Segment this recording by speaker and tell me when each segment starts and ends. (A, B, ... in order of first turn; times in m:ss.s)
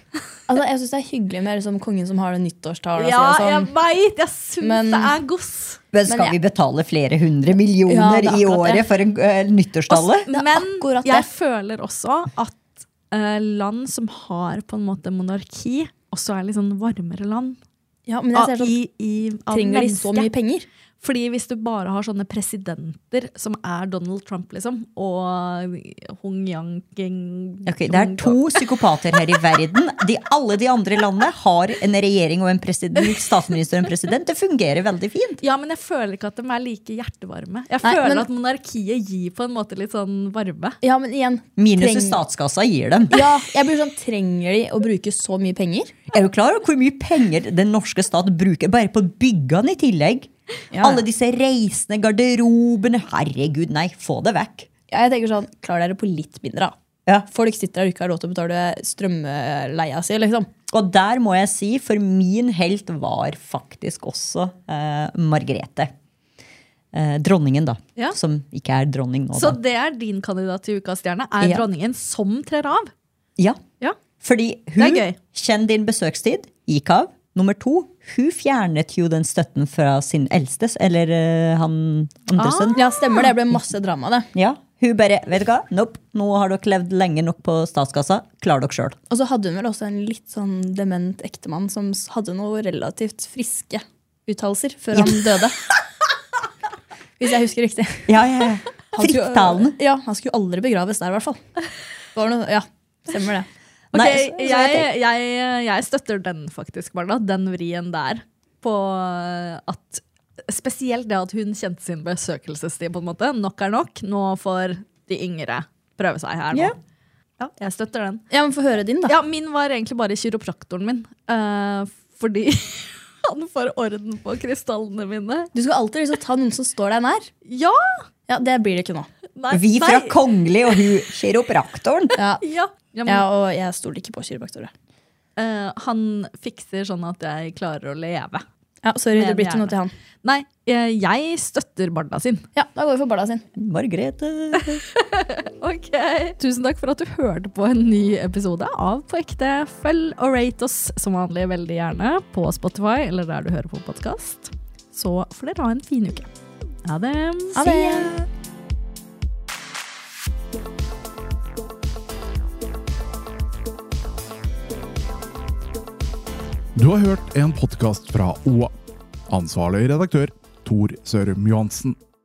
0:00.5-0:03.7 A
0:03.0-0:05.8 B
0:04.6-0:05.2 A
0:05.9-0:10.3 C
0:06.1-0:06.4 A
0:07.9-0:08.8 A
0:09.9-0:17.6 B
0:10.3-0:11.3 A
0:18.1-0:18.7 A
0:18.4-0:20.3 B
0:19.5-0:20.7 A
0:21.0-0:28.7 B
0:27.7-0:35.4 C
0:35.4-0:40.8 B
0:37.8-0:38.3 A
0:40.8-0:42.2 A
0:41.6-0:43.3 C
0:43.1-0:46.0 A
0:46.1-0:54.7 C
0:50.7-0:51.0 A
0:54.9-0:56.7 A
0:57.3-1:00.5 A
1:00.7-1:05.9 C
1:06.9-1:09.6 C
1:09.3-1:12.9 B
1:14.2-1:22.8 C
1:14.8-1:15.2 B
1:22.4-1:23.2 B
1:22.8-1:24.3 A
1:24.3-1:29.0 C
1:29.1-1:35.6 A
1:37.2-1:38.2 A
1:38.1-1:39.8 C
1:38.9-1:41.4 A
1:42.1-1:44.9 A
1:43.9-1:56.8 B
1:57.4-1:58.2 B
1:58.3-1:59.2 A
1:59.1-2:05.5 B
2:05.5-2:07.3 A
2:07.4-2:08.0 B
2:08.3-2:09.1 A
2:09.4-2:10.2 B
2:09.5-2:12.2 C
2:12.2-2:12.4 A
2:12.4-2:13.3 B
2:13.1-2:14.7 A
2:15.4-2:18.4 B
2:18.8-2:19.9 A
2:19.2-2:22.4 B
2:22.6-2:23.5 A
2:23.6-2:24.8 C
2:24.6-2:36.3 B
2:36.8-2:38.2 B
2:37.6-2:38.2 A
2:46.8-2:48.7 D
2:49.3-2:52.0 D